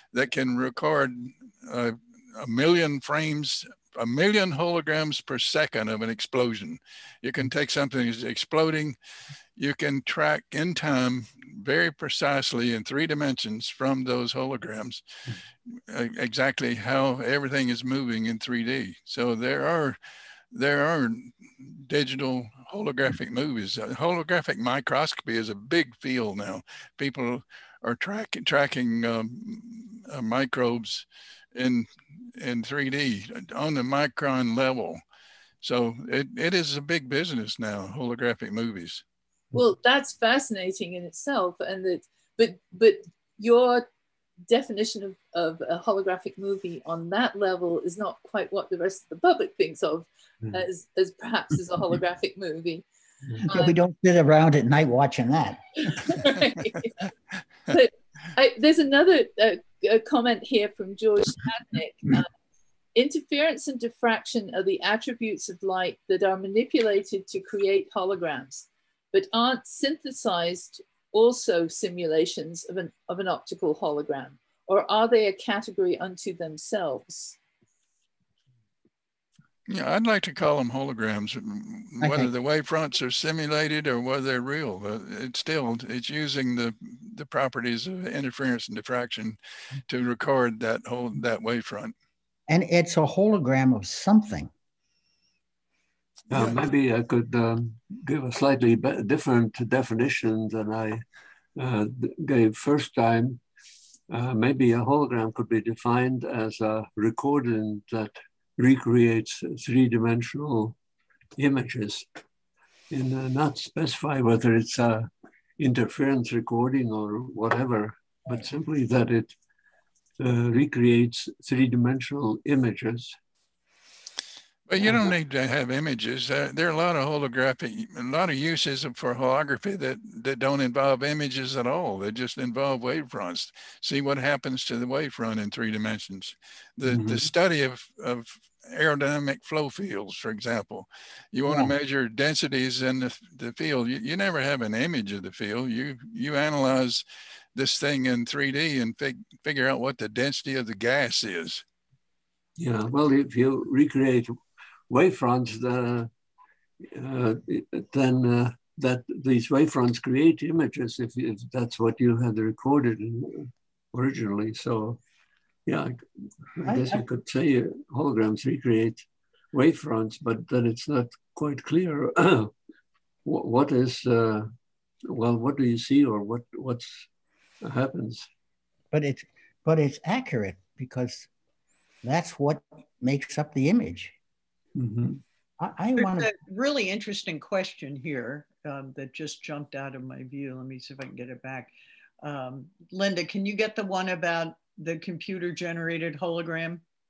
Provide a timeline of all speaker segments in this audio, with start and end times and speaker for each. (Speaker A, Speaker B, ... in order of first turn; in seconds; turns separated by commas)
Speaker A: 0.1-9.0, Speaker A: 9.6-15.0, Speaker A: 15.9-20.0, Speaker A: 20.5-35.0, Speaker A: 35.6-39.0, Speaker B: 39.5-43.9, Speaker B: 44.5-52.9, Speaker C: 53.4-56.5, Speaker B: 53.5-53.8, Speaker B: 55.8-57.0, Speaker B: 57.7-62.3, Speaker B: 63.0-77.4, Speaker A: 79.7-91.9, Speaker C: 82.0-82.3, Speaker C: 92.5-94.5, Speaker D: 96.3-101.0, Speaker D: 101.6-103.4, Speaker D: 104.1-110.8, Speaker D: 111.4-112.1, Speaker D: 112.9-119.4, Speaker D: 120.2-123.2, Speaker A: 124.7-147.0, Speaker D: 136.9-137.3, Speaker A: 147.6-151.6, Speaker D: 152.6-154.3, Speaker D: 154.9-156.1, Speaker D: 156.8-165.0, Speaker D: 165.7-172.5, Speaker C: 166.7-167.0, Speaker D: 173.2-174.5, Speaker D: 175.1-177.1, Speaker D: 177.6-178.3, Speaker C: 178.9-181.3, Speaker C: 182.0-184.1, Speaker D: 184.8-185.2, Speaker C: 185.6-186.3, Speaker E: 186.0-191.7, Speaker E: 192.2-196.8